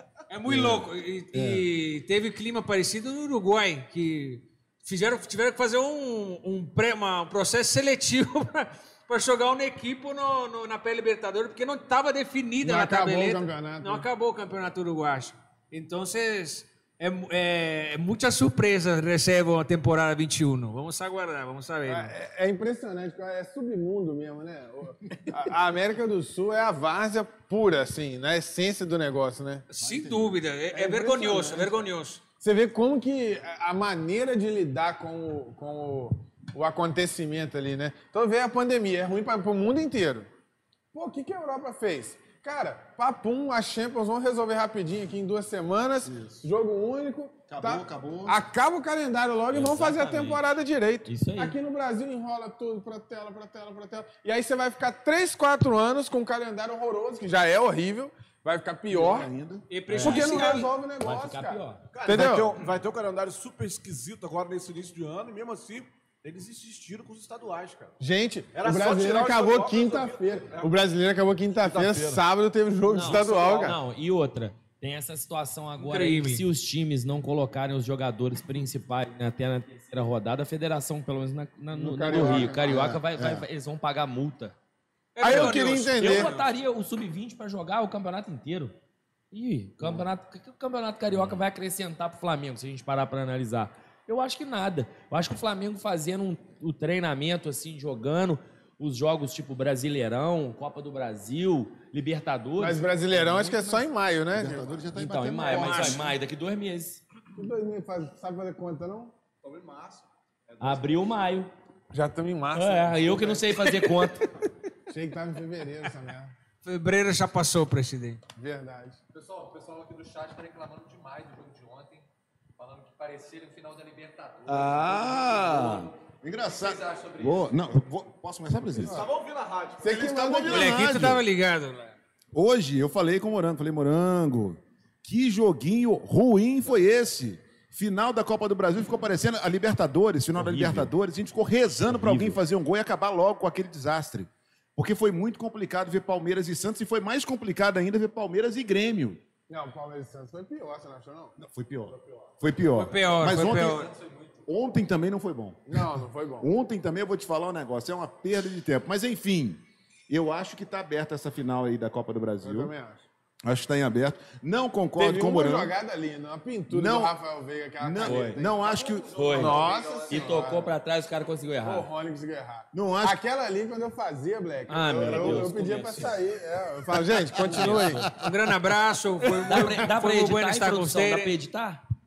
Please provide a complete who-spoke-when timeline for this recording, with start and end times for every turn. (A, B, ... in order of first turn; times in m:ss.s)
0:00.3-0:22.1 A
0:00.5-0:01.6 B
0:12.6-0:14.0 C
0:21.9-0:29.6 C
0:29.7-0:32.2 A
0:29.8-0:30.4 B
0:30.7-0:40.3 C
0:40.9-0:59.3 C
0:46.0-0:46.5 B
0:47.5-0:48.4 B
0:49.5-0:50.4 D
0:51.0-0:51.6 D
0:58.9-0:59.6 B
0:59.7-1:00.7 A
0:59.9-1:00.4 D
1:00.0-1:02.6 C
1:01.0-1:01.8 D
1:01.9-1:07.9 E
1:08.0-1:13.8 C
1:08.5-1:10.8 E
1:11.6-1:12.2 E
1:12.9-1:24.5 D
1:15.8-1:16.4 A
1:21.7-1:23.4 C
1:22.1-1:23.4 B
1:25.1-1:26.4 A
1:25.2-1:26.3 C
1:25.3-1:28.7 D
1:29.3-1:43.8 D
1:42.6-1:44.7 C
1:44.3-1:46.0 B
1:44.9-1:47.0 D
1:45.4-1:46.1 A
1:47.3-1:49.1 C
1:49.4-1:50.0 E
1:50.5-1:51.0 E
1:50.6-1:51.5 D
1:51.9-1:54.1 C
1:52.5-1:54.3 D
1:54.9-1:56.3 C
1:56.6-1:58.2 A
1:58.4-1:59.0 C
1:59.1-2:02.0 F
2:02.6-2:07.7 F
2:04.4-2:09.1 B
2:08.8-2:10.1 E
2:08.8-2:09.1 C
2:09.8-2:10.9 C
2:09.8-2:11.2 B
2:10.4-2:12.0 A
2:12.3-2:29.2 B
2:20.4-2:20.9 D
2:21.9-2:22.4 D
2:29.5-2:31.4 C
2:31.4-2:33.9 B
2:32.7-2:33.9 A
2:33.2-2:34.4 F
2:34.5-2:42.7 B
2:35.7-2:36.5 C
2:42.4-2:43.0 C
2:43.4-2:45.7 B
2:45.0-2:48.6 C
2:46.7-2:47.1 B
2:47.8-2:49.3 B
2:48.0-2:48.4 D
2:48.4-2:50.5 F
2:49.1-2:51.9 D
2:49.3-2:50.7 C
2:51.6-2:58.1 C
2:52.7-2:53.2 B
2:54.7-2:56.2 D
2:55.0-2:55.5 B
2:57.3-2:58.3 B
2:57.4-2:58.1 D
2:58.1-3:01.3 A
2:59.2-3:01.8 D